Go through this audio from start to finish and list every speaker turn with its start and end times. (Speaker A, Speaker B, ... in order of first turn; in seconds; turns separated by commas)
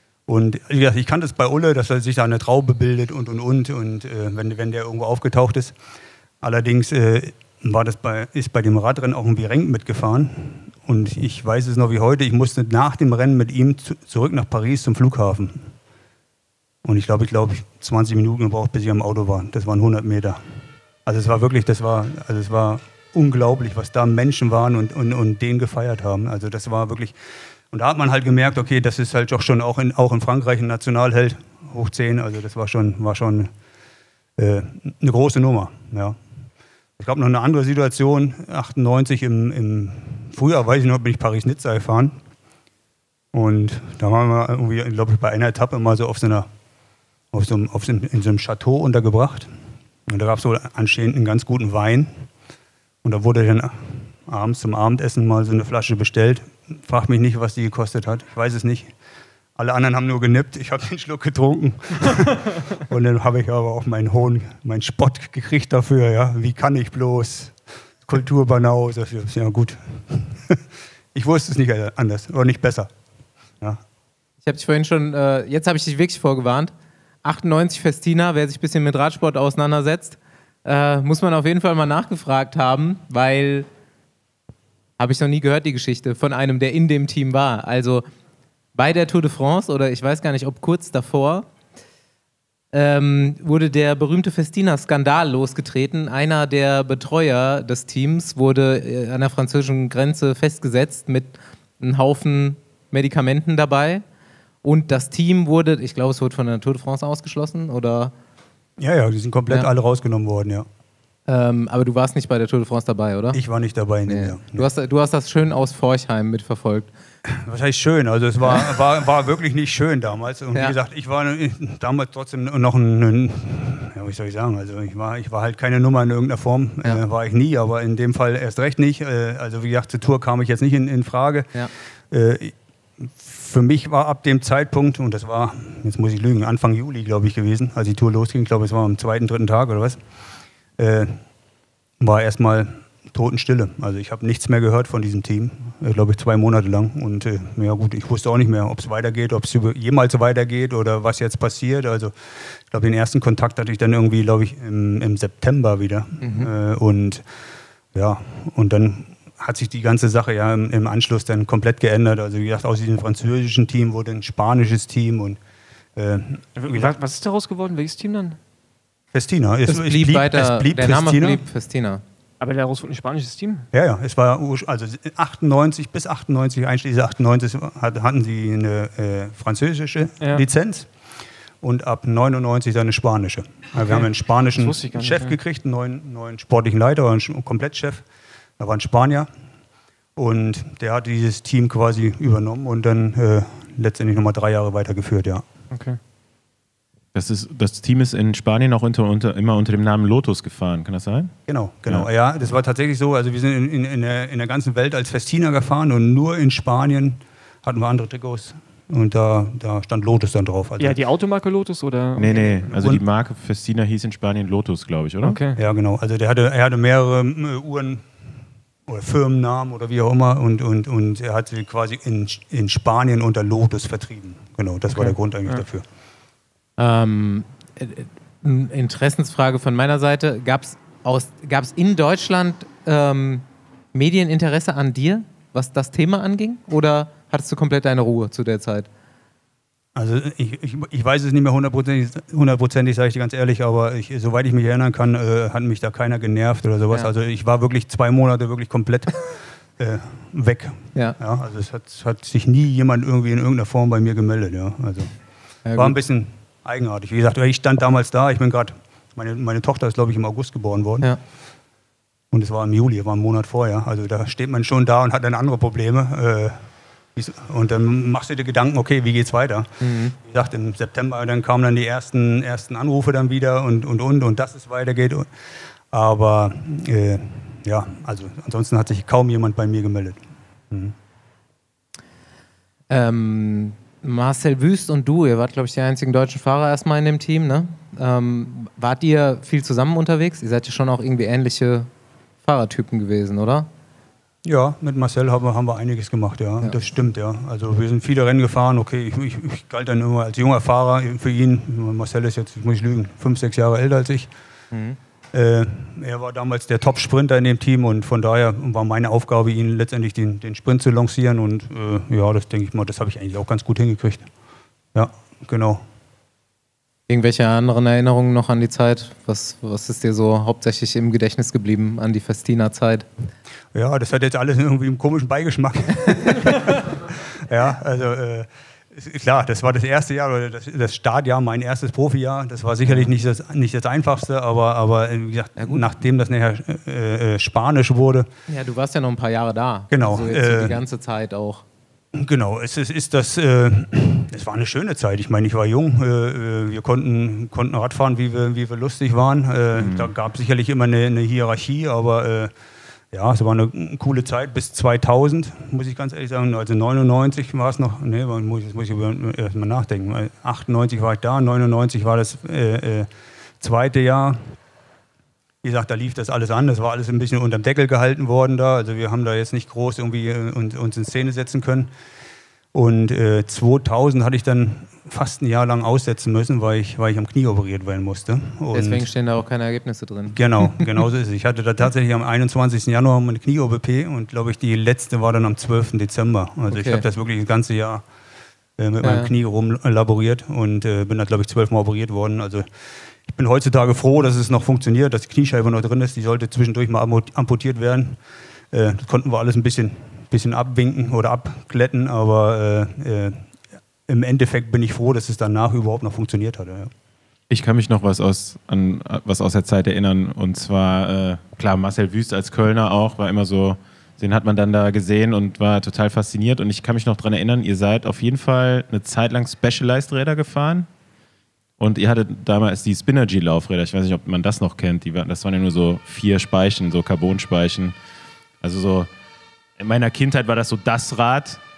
Speaker A: 0.3-5.8, Speaker A: 6.4-15.7, Speaker A: 16.8-20.4, Speaker A: 21.1-27.2, Speaker A: 27.7-33.5, Speaker A: 34.4-36.2, Speaker A: 37.0-42.2, Speaker A: 43.3-46.5, Speaker A: 47.3-49.5, Speaker A: 50.1-52.3, Speaker A: 53.0-58.9, Speaker A: 59.6-70.6, Speaker A: 71.1-72.9, Speaker B: 74.4-76.7, Speaker B: 77.2-83.7, Speaker B: 85.0-88.0, Speaker B: 88.8-91.5, Speaker B: 92.7-104.0, Speaker B: 104.6-108.1, Speaker A: 108.8-110.7, Speaker B: 111.3-113.4, Speaker A: 113.3-114.7, Speaker B: 114.1-116.9, Speaker A: 117.3-131.5, Speaker B: 118.5-118.7, Speaker A: 132.1-140.0, Speaker A: 140.8-141.2, Speaker A: 142.0-157.2, Speaker B: 156.2-156.5, Speaker A: 157.9-165.4, Speaker A: 166.0-166.9, Speaker C: 166.6-168.4, Speaker A: 169.1-171.4, Speaker B: 169.7-172.0, Speaker C: 172.4-173.7, Speaker A: 173.7-180.9, Speaker A: 181.6-188.1, Speaker C: 184.6-185.4, Speaker A: 188.6-189.3, Speaker A: 190.2-195.4, Speaker C: 195.7-196.0, Speaker D: 197.1-201.3, Speaker A: 201.5-211.0, Speaker C: 210.8-212.7, Speaker D: 212.2-215.4, Speaker A: 212.7-213.0, Speaker C: 215.2-215.6, Speaker A: 215.6-218.1, Speaker A: 218.9-225.8, Speaker C: 224.9-225.6, Speaker B: 226.8-238.9, Speaker A: 239.9-255.1, Speaker B: 255.7-256.0, Speaker A: 255.8-261.1, Speaker A: 262.3-275.3, Speaker B: 269.8-270.1, Speaker A: 275.9-280.9, Speaker B: 282.9-291.9, Speaker B: 292.4-293.7, Speaker A: 294.4-304.3, Speaker B: 304.7-305.0, Speaker A: 305.3-314.3, Speaker A: 314.9-315.8, Speaker B: 317.1-323.1, Speaker A: 323.7-338.3, Speaker B: 332.9-333.1, Speaker B: 335.6-335.9, Speaker B: 338.5-341.6, Speaker A: 339.9-340.8, Speaker A: 342.1-352.5, Speaker D: 349.8-350.1, Speaker A: 353.1-363.1, Speaker A: 363.6-364.4, Speaker A: 365.6-371.9, Speaker A: 372.7-379.1, Speaker B: 378.7-380.9, Speaker A: 380.3-388.1, Speaker B: 386.7-387.1, Speaker A: 388.8-392.7, Speaker B: 389.0-389.3, Speaker A: 393.2-398.2, Speaker A: 398.7-403.4, Speaker A: 404.1-406.9, Speaker D: 407.5-420.9, Speaker D: 421.8-427.9, Speaker D: 428.6-429.1, Speaker D: 429.8-431.6